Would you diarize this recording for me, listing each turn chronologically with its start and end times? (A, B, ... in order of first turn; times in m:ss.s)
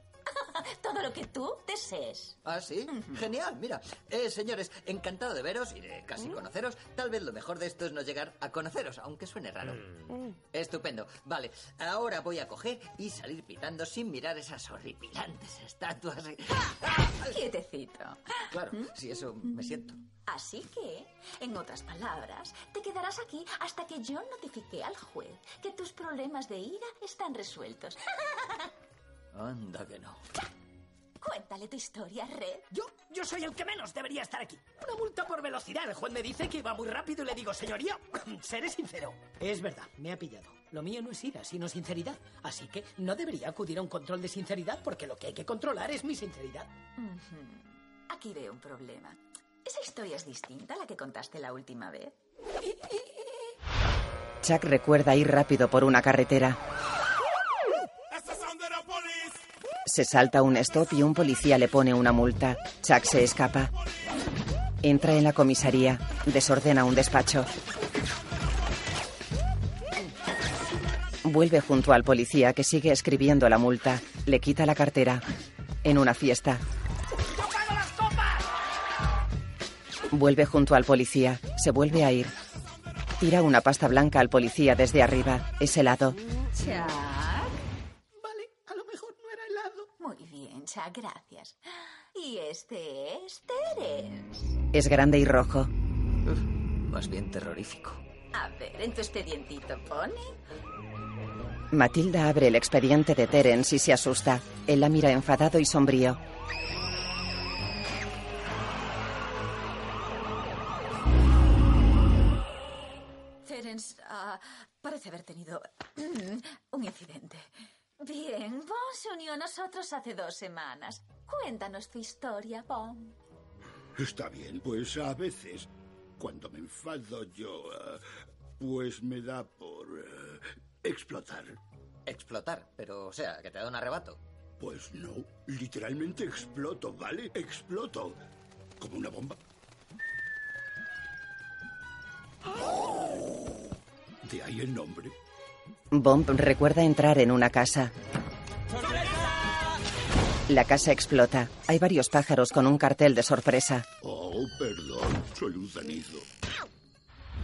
0:00.3-0:03.2 A
0:02.4-0:17.3 B
0:17.2-0:18.9 A
0:18.5-0:20.0 B
0:20.2-0:28.7 A
0:29.3-0:30.2 B
0:31.2-0:32.7 A
0:32.7-0:46.7 C
0:47.0-0:52.2 A
0:54.4-0:56.6 D
0:59.8-1:03.7 D
1:04.8-1:07.5 D
1:11.2-1:15.2 D
1:15.8-1:16.6 D
1:17.2-1:18.4 C
1:20.1-1:22.3 D
1:23.2-1:26.2 D
1:26.5-1:27.6 A
1:28.2-1:29.9 C
1:30.0-1:34.6 A
1:34.7-1:35.7 D
1:36.2-1:38.0 B
1:38.3-1:40.4 A
1:41.7-1:46.2 D
1:53.4-1:57.5 A
1:58.0-2:03.2 A
2:04.0-2:08.1 E
2:08.6-2:11.6 E
2:12.1-2:14.2 B
2:14.6-2:18.2 E
2:18.8-2:19.4 E
2:24.2-2:25.2 E
2:25.9-2:27.9 D
2:30.5-2:33.9 D
2:34.0-2:36.3 E